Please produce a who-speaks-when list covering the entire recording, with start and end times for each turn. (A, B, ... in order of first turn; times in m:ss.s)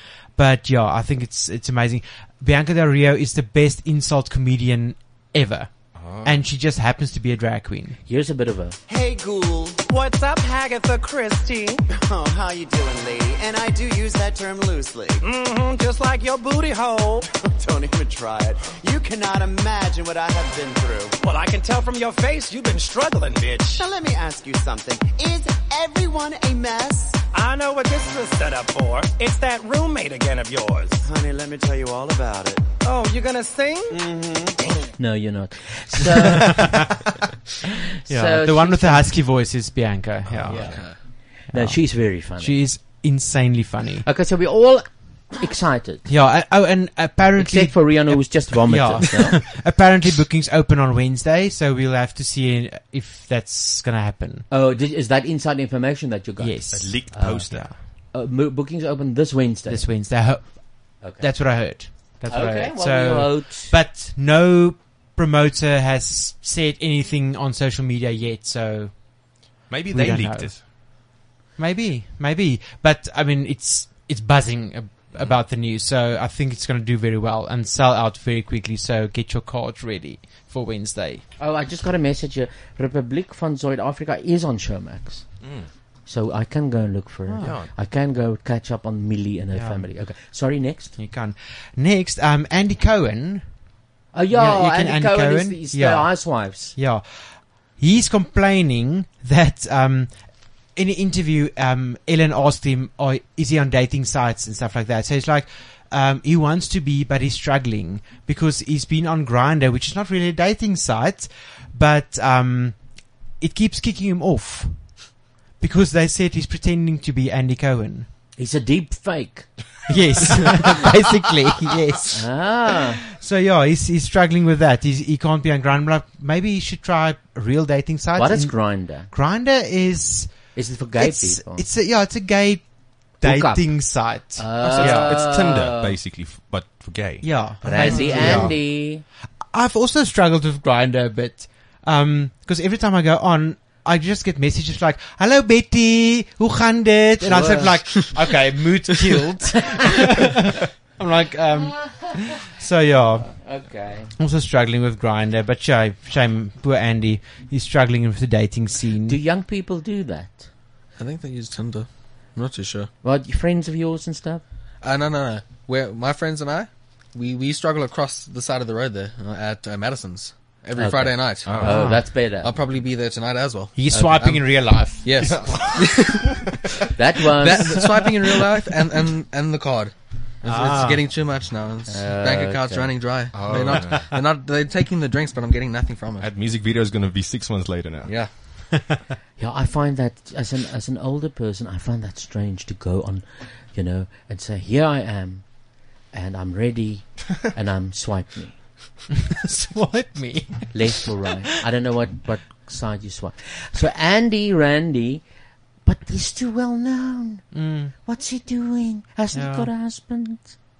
0:00.4-0:08.0 A
0:06.0-0:06.4 B
0:08.1-0:08.8 C
0:08.9-0:34.7 D
0:35.0-0:36.9 C
0:36.3-0:36.6 A
0:38.1-0:39.2 C
0:38.1-0:40.9 A
0:40.5-0:41.0 E
0:40.5-0:42.6 C
0:41.5-0:44.1 A
0:44.0-0:46.1 C
0:46.1-0:54.5 A
0:47.4-0:49.4 C
0:54.5-0:59.8 C
0:56.4-0:57.7 A
0:56.7-0:57.8 B
0:59.7-1:09.3 A
1:01.0-1:01.3 C
1:02.3-1:03.7 C
1:09.7-1:10.6 B
1:09.9-1:10.8 A
1:11.6-1:21.2 A
1:21.4-1:25.2 C
1:25.4-1:25.7 B
1:26.1-1:31.0 C
1:27.3-1:27.6 A
1:27.4-1:27.7 B
1:29.5-1:29.9 A
1:31.0-1:33.6 A
1:34.1-1:36.8 C
1:34.3-1:40.2 A
1:40.7-1:58.1 A
1:58.4-1:59.5 C
1:59.9-2:02.3 A
2:02.1-2:03.0 C
2:03.1-2:08.6 A
2:08.2-2:09.1 C
2:09.1-2:15.2 A
2:10.6-2:11.6 C
2:13.2-2:15.9 C
2:14.6-2:18.5 B
2:17.2-2:18.6 A
2:17.6-2:19.0 C
2:19.5-2:33.6 A
2:27.3-2:27.7 C
2:33.3-2:34.1 C
2:34.2-2:39.2 A
2:39.1-2:40.5 C
2:41.0-2:42.9 E
2:43.0-2:44.4 C
2:44.8-2:51.8 E
2:50.8-2:52.6 C
2:51.4-2:52.0 B
2:51.6-2:52.0 A
2:52.4-2:54.4 E
2:53.8-2:55.6 A
2:53.9-2:54.3 C
2:55.0-2:56.4 E
2:55.2-2:56.6 B
2:57.0-2:58.1 C
2:57.3-3:06.3 E
2:57.6-2:58.5 A
3:00.4-3:01.0 A
3:01.9-3:03.1 C
3:03.3-3:04.2 B
3:06.2-3:08.2 B
3:08.0-3:08.3 E
3:09.4-3:15.5 C
3:16.1-3:18.6 C
3:19.4-3:21.1 A
3:20.7-3:25.2 C
3:25.8-3:30.5 C
3:27.5-3:27.9 A
3:29.3-3:29.7 A